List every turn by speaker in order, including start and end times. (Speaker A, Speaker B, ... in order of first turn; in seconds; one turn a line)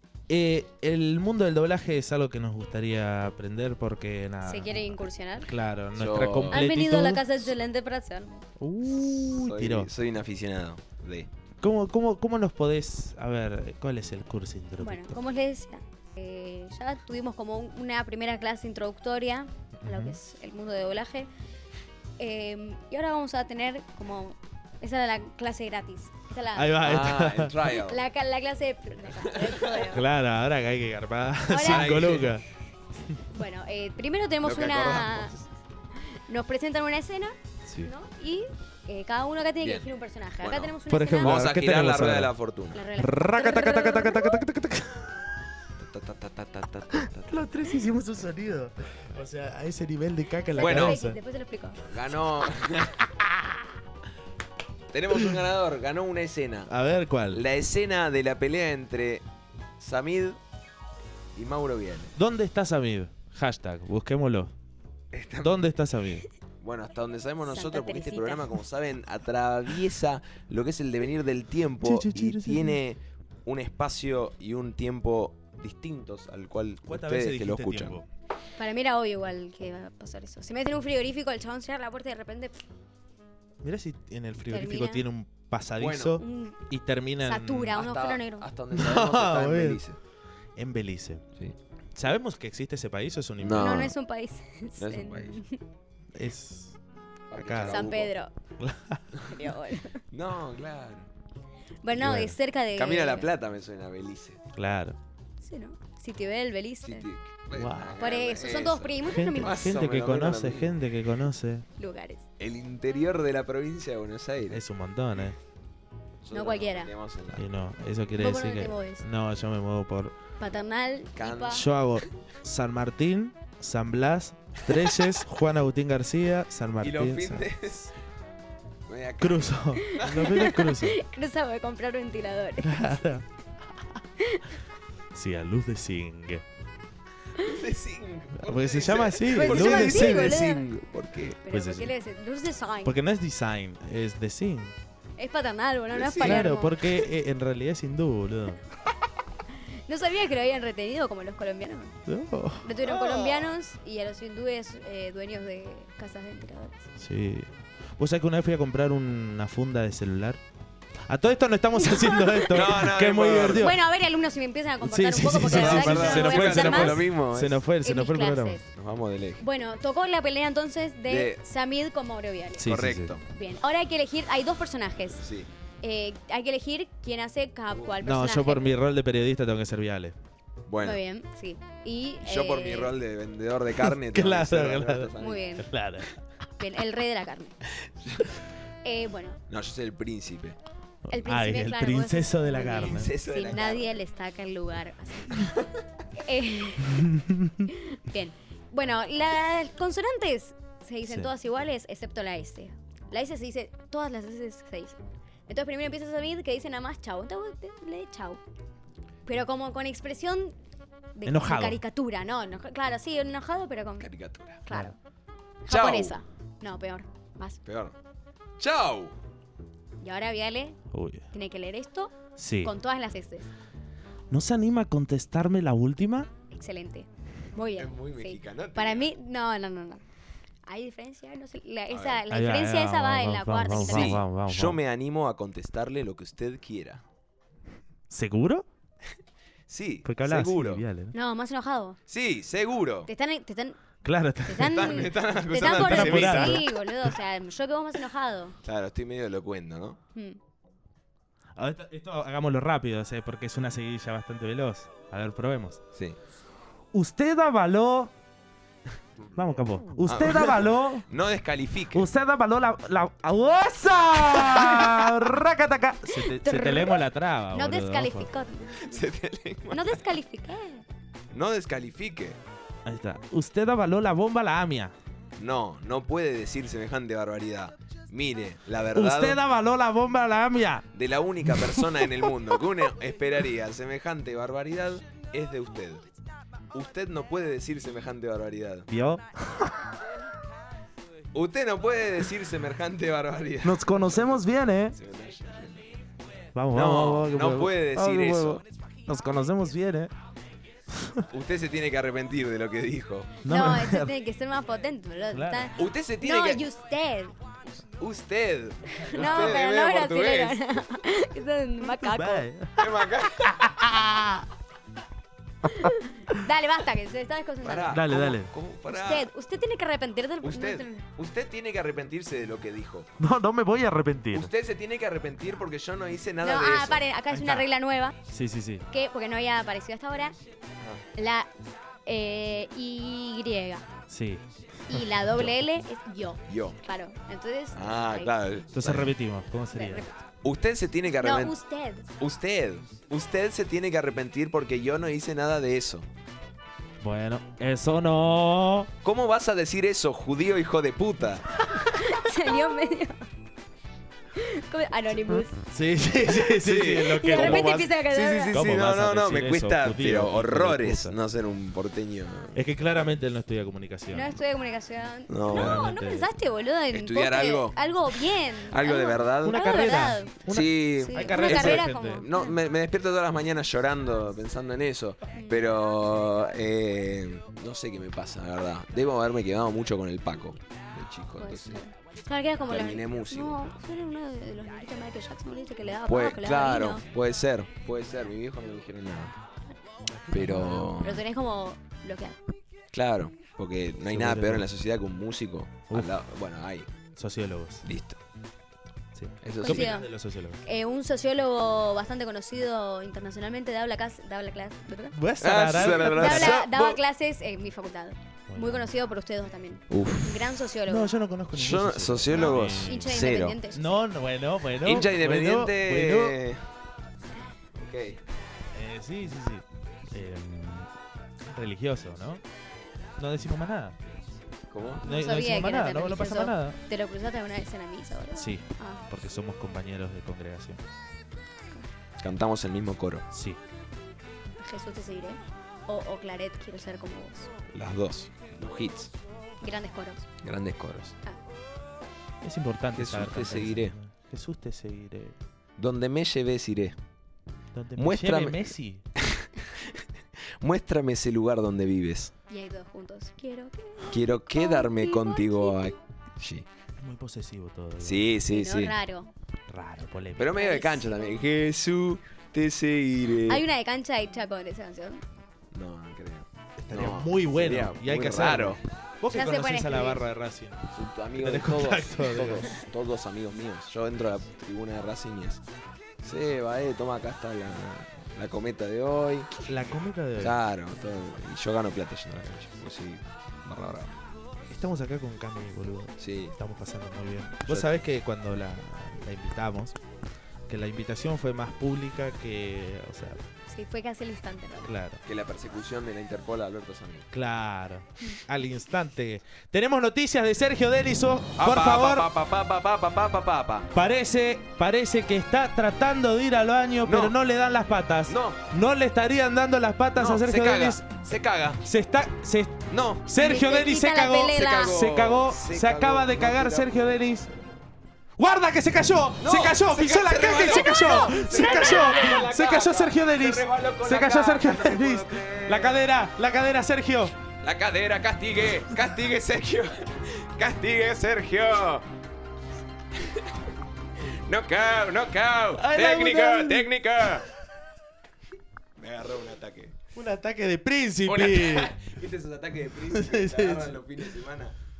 Speaker A: 0.3-7.4
Speaker B: 4.4-5.5
Speaker C: 5.9-6.7
Speaker B: 6.5-8.4
Speaker A: 8.6-9.9
Speaker C: 9.2-11.3
Speaker A: 11.6-15.2
Speaker B: 14.8-21.3
Speaker A: 19.8-20.2
Speaker B: 22.2-27.0
Speaker A: 26.5-27.5
Speaker C: 26.8-28.0
Speaker B: 27.7-30.0
Speaker C: 29.2-29.9
Speaker A: 29.9-32.4
Speaker B: 31.5-32.0
Speaker C: 31.6-32.4
Speaker B: 33.3-35.4
Speaker C: 34.4-35.4
Speaker B: 36.3-41.4
Speaker A: 37.6-37.9
Speaker C: 39.6-39.9
Speaker C: 40.4-42.8
Speaker A: 40.9-42.3
Speaker B: 42.7-44.4
Speaker A: 43.0-45.4
Speaker C: 45.8-47.4
Speaker A: 46.9-51.2
Speaker B: 50.5-51.8
Speaker C: 50.6-51.0
Speaker C: 51.8-53.1
Speaker C: 54.9-56.7
Speaker A: 56.7-57.4
Speaker C: 57.3-59.2
Speaker C: 59.8-60.4
Speaker C: 61.3-62.1
Speaker A: 62.1-64.5
Speaker C: 65.1-65.6
Speaker A: 65.4-66.3
Speaker C: 66.6-78.0
Speaker B: 67.5-68.5
Speaker A: 71.8-72.8
Speaker A: 76.8-78.1
Speaker B: 78.6-82.6
Speaker A: 83.6-87.8
Speaker B: 84.5-85.0
Speaker C: 85.8-86.2
Speaker B: 86.2-86.6
Speaker B: 87.2-88.5
Speaker C: 87.7-90.0
Speaker A: 88.7-89.8
Speaker A: 90.6-91.2
Speaker A: 92.0-93.8
Speaker C: 93.4-93.9
Speaker B: 93.6-95.6
Speaker C: 94.8-95.4
Speaker A: 96.2-96.8
Speaker C: 97.3-98.1
Speaker A: 97.3-97.9
Speaker B: 97.7-98.3
Speaker A: 98.6-99.0
Speaker B: 99.3-100.0
Speaker C: 100.1-101.1
Speaker B: 101.8-103.3
Speaker A: 102.0-102.3
Speaker C: 102.7-104.4
Speaker A: 104.5-105.0
Speaker B: 105.4-107.0
Speaker C: 106.8-110.7
Speaker A: 107.5-108.0
Speaker B: 108.0-109.6
Speaker A: 109.0-111.7
Speaker B: 111.8-112.2
Speaker C: 112.4-114.6
Speaker A: 114.5-115.4
Speaker C: 116.2-117.4
Speaker B: 116.3-116.9
Speaker A: 117.3-120.2
Speaker B: 118.2-119.0
Speaker B: 120.4-121.6
Speaker C: 121.2-121.6
Speaker A: 121.5-127.9
Speaker C: 126.8-127.9
Speaker C: 128.9-130.3
Speaker A: 129.2-131.0
Speaker B: 129.9-132.9
Speaker A: 132.6-133.2
Speaker B: 134.2-134.4
Speaker A: 135.1-136.4
Speaker C: 137.3-141.4
Speaker A: 138.4-140.3
Speaker B: 139.3-140.6
Speaker B: 141.4-143.0
Speaker A: 141.5-141.9
Speaker A: 142.8-144.7
Speaker B: 145.2-146.8
Speaker C: 145.9-146.6
Speaker A: 146.2-148.6
Speaker B: 149.9-151.9
Speaker A: 152.1-152.7
Speaker B: 152.6-156.9
Speaker C: 152.9-153.5
Speaker A: 157.0-160.4
Speaker A: 161.1-163.7
Speaker B: 161.8-162.6
Speaker C: 162.5-163.7
Speaker B: 163.4-167.1
Speaker A: 164.8-168.6
Speaker C: 165.4-167.6
Speaker B: 167.8-168.7
Speaker C: 168.7-169.4
Speaker B: 169.4-172.7
Speaker C: 171.1-171.4
Speaker A: 172.6-173.1
Speaker C: 172.6-173.2
Speaker B: 173.3-175.2
Speaker C: 175.2-175.5
Speaker B: 175.8-178.8
Speaker A: 178.0-180.1
Speaker C: 180.7-181.0
Speaker B: 180.8-182.9
Speaker C: 182.2-185.5
Speaker A: 183.8-186.1
Speaker B: 185.2-185.7
Speaker B: 186.6-187.5
Speaker B: 188.8-189.4
Speaker C: 189.5-190.6
Speaker A: 191.1-193.1
Speaker B: 191.1-195.5
Speaker C: 192.6-194.0
Speaker C: 195.3-195.7
Speaker B: 196.2-197.1
Speaker A: 196.8-197.7
Speaker B: 197.7-205.0
Speaker B: 205.5-208.4
Speaker B: 209.2-210.5
Speaker B: 211.1-214.1
Speaker A: 211.2-211.8
Speaker C: 214.0-214.6
Speaker B: 214.6-214.9
Speaker B: 215.6-217.6
Speaker C: 215.7-216.2
Speaker C: 217.6-217.9
Speaker C: 218.6-219.1
Speaker B: 220.0-220.8
Speaker A: 220.9-221.2
Speaker B: 221.3-223.5
Speaker A: 222.4-222.7
Speaker A: 224.3-226.3
Speaker B: 226.5-230.0
Speaker C: 227.7-229.1
Speaker B: 230.7-234.2
Speaker C: 231.9-232.2
Speaker A: 232.3-234.8
Speaker C: 233.7-237.0
Speaker A: 238.1-238.7
Speaker C: 239.7-240.8
Speaker A: 240.0-241.1
Speaker B: 241.1-242.0
Speaker C: 242.1-243.1
Speaker B: 243.1-243.8
Speaker A: 244.0-245.1
Speaker B: 244.4-248.6
Speaker C: 244.6-246.8
Speaker A: 245.6-246.6
Speaker C: 248.6-250.0
Speaker A: 251.6-255.8
Speaker A: 256.9-258.1
Speaker A: 259.3-261.1
Speaker C: 260.0-262.1
Speaker A: 261.9-268.3
Speaker B: 264.5-265.0
Speaker B: 266.1-267.0
Speaker B: 267.5-269.1
Speaker C: 268.8-270.0
Speaker B: 269.7-270.8
Speaker C: 271.3-272.4
Speaker A: 272.9-274.9
Speaker C: 275.4-279.4
Speaker A: 278.9-280.9
Speaker C: 280.9-286.0
Speaker A: 281.4-282.2
Speaker C: 286.7-288.9
Speaker A: 288.9-289.9
Speaker C: 291.3-295.9
Speaker A: 293.6-294.9
Speaker A: 296.5-300.1
Speaker C: 296.7-298.6
Speaker C: 301.3-303.3
Speaker A: 303.4-304.1
Speaker B: 303.5-307.3
Speaker A: 305.3-305.7
Speaker C: 305.8-306.6
Speaker C: 307.6-310.8
Speaker A: 308.9-309.5
Speaker B: 309.1-312.4
Speaker A: 311.9-314.5
Speaker C: 312.8-313.7
Speaker A: 315.6-316.4
Speaker B: 315.7-318.0
Speaker C: 317.6-319.3
Speaker A: 317.9-318.5
Speaker B: 318.9-321.1
Speaker C: 320.4-323.1
Speaker A: 323.2-324.5
Speaker C: 324.3-327.1
Speaker B: 326.4-328.1
Speaker A: 327.3-327.6
Speaker A: 328.3-328.9
Speaker B: 328.9-330.4
Speaker B: 331.1-331.5
Speaker B: 332.1-333.9
Speaker A: 334.1-335.5
Speaker B: 334.9-338.3
Speaker C: 336.5-336.8
Speaker C: 337.7-339.1
Speaker A: 338.7-340.1
Speaker B: 339.7-340.2
Speaker C: 340.4-341.5
Speaker B: 341.2-342.1
Speaker C: 342.2-346.1
Speaker A: 347.0-348.9
Speaker C: 349.0-351.4
Speaker B: 351.9-353.2
Speaker B: 354.4-355.6
Speaker A: 355.6-357.9
Speaker C: 356.4-362.6
Speaker B: 357.1-358.5
Speaker A: 358.5-361.1
Speaker A: 362.5-364.3
Speaker B: 364.1-370.4
Speaker C: 365.3-365.9
Speaker A: 365.5-366.3
Speaker C: 366.9-367.8
Speaker C: 368.6-369.7
Speaker A: 369.4-372.2
Speaker C: 370.5-381.8
Speaker B: 371.0-372.5
Speaker B: 375.3-375.7
Speaker B: 381.4-387.0
Speaker C: 382.7-383.6
Speaker C: 386.1-389.3
Speaker A: 390.1-391.0
Speaker C: 390.3-391.2
Speaker B: 391.0-392.4
Speaker C: 392.9-396.9
Speaker A: 394.1-394.7
Speaker A: 397.1-397.9
Speaker C: 397.8-398.2
Speaker A: 399.1-400.6
Speaker C: 399.4-400.0
Speaker B: 399.6-400.1
Speaker B: 400.6-405.1
Speaker A: 405.1-406.6
Speaker C: 405.4-407.0
Speaker B: 405.8-411.1
Speaker A: 408.5-408.9
Speaker C: 409.9-410.5
Speaker A: 410.9-413.1
Speaker C: 411.5-413.6
Speaker B: 412.9-413.9
Speaker A: 413.7-416.4
Speaker C: 414.8-416.6
Speaker C: 417.7-418.2
Speaker A: 418.7-420.9
Speaker A: 421.5-422.4
Speaker A: 423.2-424.0
Speaker C: 424.7-425.1
Speaker A: 425.0-426.8
Speaker B: 425.1-429.0
Speaker A: 428.4-430.8
Speaker C: 432.2-433.2
Speaker A: 433.3-433.6
Speaker B: 434.6-437.5
Speaker C: 437.7-439.1
Speaker B: 439.6-440.3
Speaker C: 440.4-441.1
Speaker A: 442.4-445.4
Speaker C: 442.9-443.9
Speaker C: 445.8-446.9
Speaker A: 447.7-449.0
Speaker C: 448.0-450.0
Speaker C: 450.6-452.3
Speaker B: 452.5-455.9
Speaker C: 454.1-456.7
Speaker A: 457.0-458.3
Speaker C: 458.0-458.9
Speaker B: 458.5-459.3
Speaker A: 459.7-460.5
Speaker C: 460.4-463.6
Speaker B: 460.5-461.5
Speaker B: 463.5-465.2
Speaker C: 465.7-468.8
Speaker A: 466.8-472.8
Speaker B: 469.3-470.2
Speaker C: 470.9-475.6
Speaker C: 476.2-479.6
Speaker A: 479.6-480.6
Speaker C: 480.4-484.2
Speaker A: 484.7-490.0
Speaker C: 486.2-486.5
Speaker C: 487.7-488.0
Speaker A: 490.7-493.4
Speaker B: 493.7-494.9
Speaker A: 494.8-495.2
Speaker C: 495.2-497.3
Speaker A: 497.3-502.3
Speaker C: 501.6-503.9
Speaker A: 503.9-511.0
Speaker C: 507.0-507.4
Speaker C: 508.3-508.6
Speaker C: 510.1-511.8
Speaker A: 511.8-517.5
Speaker C: 512.9-513.3
Speaker B: 513.4-515.0
Speaker C: 514.5-517.0
Speaker A: 518.4-527.3
Speaker C: 519.4-526.0
Speaker B: 521.0-521.5
Speaker C: 527.6-532.0
Speaker C: 533.1-533.5
Speaker C: 534.3-537.5
Speaker A: 535.8-536.9
Speaker C: 539.0-540.0
Speaker A: 540.1-541.9
Speaker C: 541.2-544.7
Speaker A: 543.1-544.0